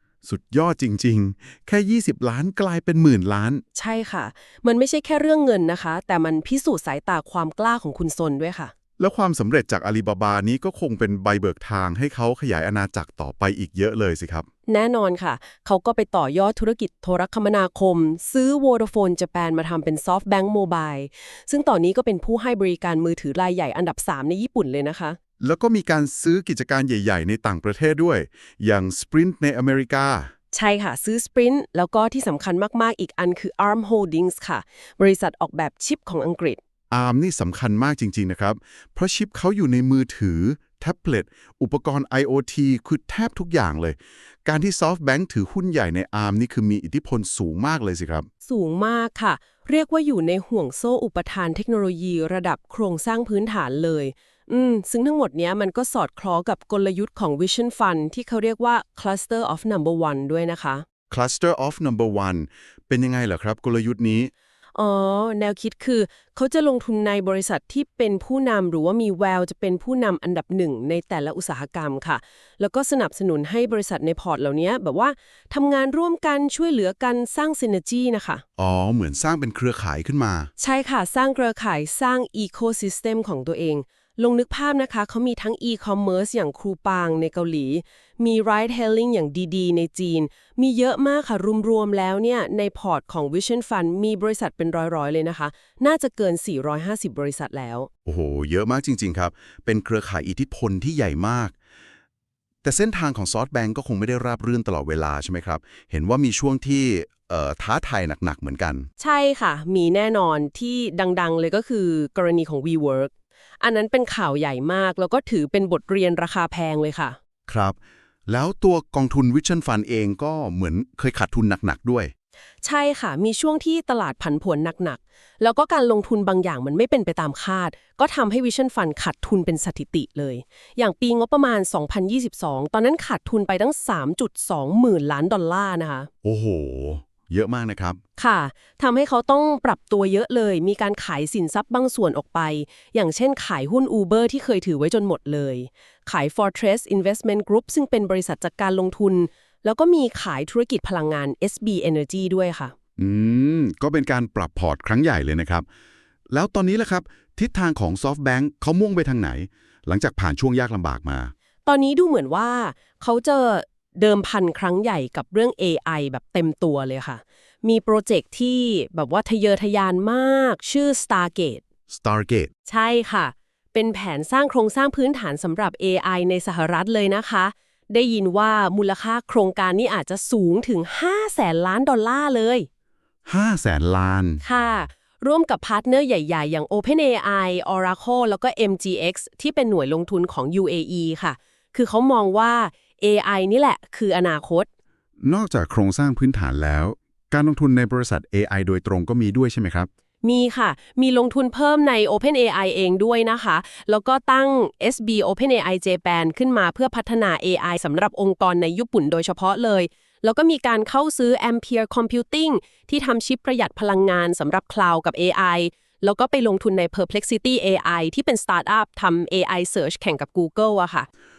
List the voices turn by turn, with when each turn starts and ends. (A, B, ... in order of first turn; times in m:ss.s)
0:00.2-0:03.6 A
0:03.8-0:08.7 B
0:09.0-0:14.5 A
0:14.7-0:25.2 B
0:25.4-0:30.3 A
0:30.5-0:36.6 B
0:36.9-0:48.3 A
0:48.5-1:00.8 B
1:01.1-1:04.3 A
1:04.8-1:18.4 B
1:18.6-1:20.5 A
1:20.6-1:37.9 B
1:38.1-1:41.5 A
1:42.6-1:48.9 A
1:49.0-1:57.2 B
1:57.5-1:57.8 A
1:58.3-2:02.1 A
2:02.6-2:16.1 B
2:16.2-2:18.0 A
2:18.2-2:32.7 B
2:33.0-2:35.6 A
2:36.3-2:41.3 A
2:41.7-2:51.6 B
2:51.9-2:52.5 A
2:52.7-3:02.7 B
3:03.3-3:04.4 A
3:04.4-3:14.7 B
3:15.2-3:19.9 A
3:20.2-3:41.1 B